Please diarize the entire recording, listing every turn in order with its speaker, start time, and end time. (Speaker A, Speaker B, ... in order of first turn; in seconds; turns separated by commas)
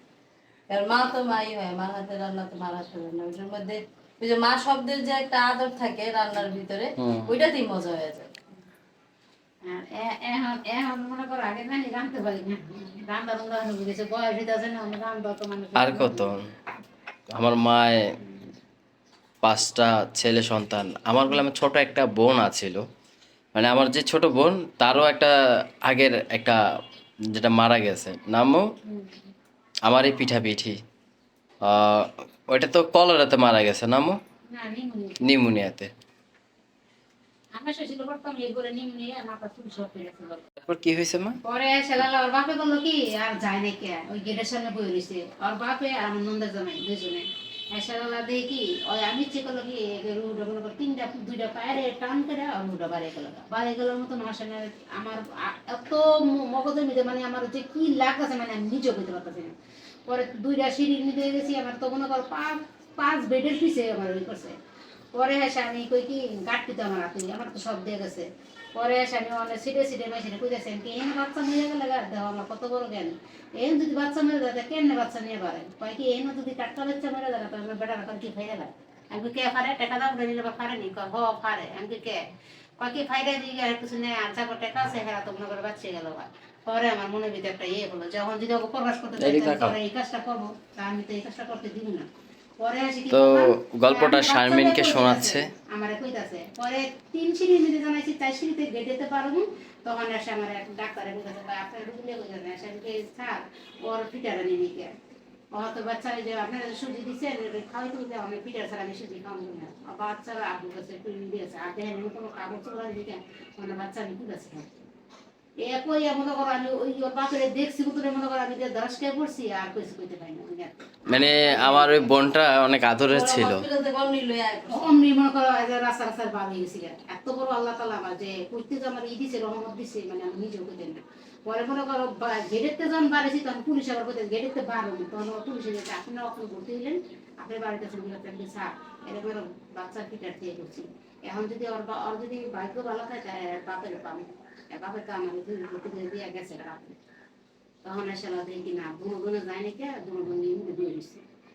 Speaker A: 0.7-8.3, Speaker B: 7.0-7.3, Speaker C: 9.7-16.3, Speaker B: 15.8-16.5, Speaker B: 17.3-18.0, Speaker B: 19.4-22.8, Speaker B: 23.6-25.3, Speaker B: 25.9-26.6, Speaker B: 27.4-28.6, Speaker B: 29.9-30.8, Speaker B: 31.6-34.2, Speaker C: 34.5-35.3, Speaker B: 35.2-35.9, Speaker C: 37.6-40.4, Speaker B: 40.7-41.4, Speaker C: 41.5-59.5, Speaker C: 60.1-64.5, Speaker C: 65.1-82.2, Speaker C: 82.8-92.1, Speaker B: 89.2-89.8, Speaker C: 92.6-104.9, Speaker B: 93.1-95.5, Speaker C: 105.5-114.8, Speaker C: 115.6-122.2, Speaker B: 121.1-123.6, Speaker A: 123.1-124.8, Speaker C: 124.7-147.0, Speaker C: 147.8-151.2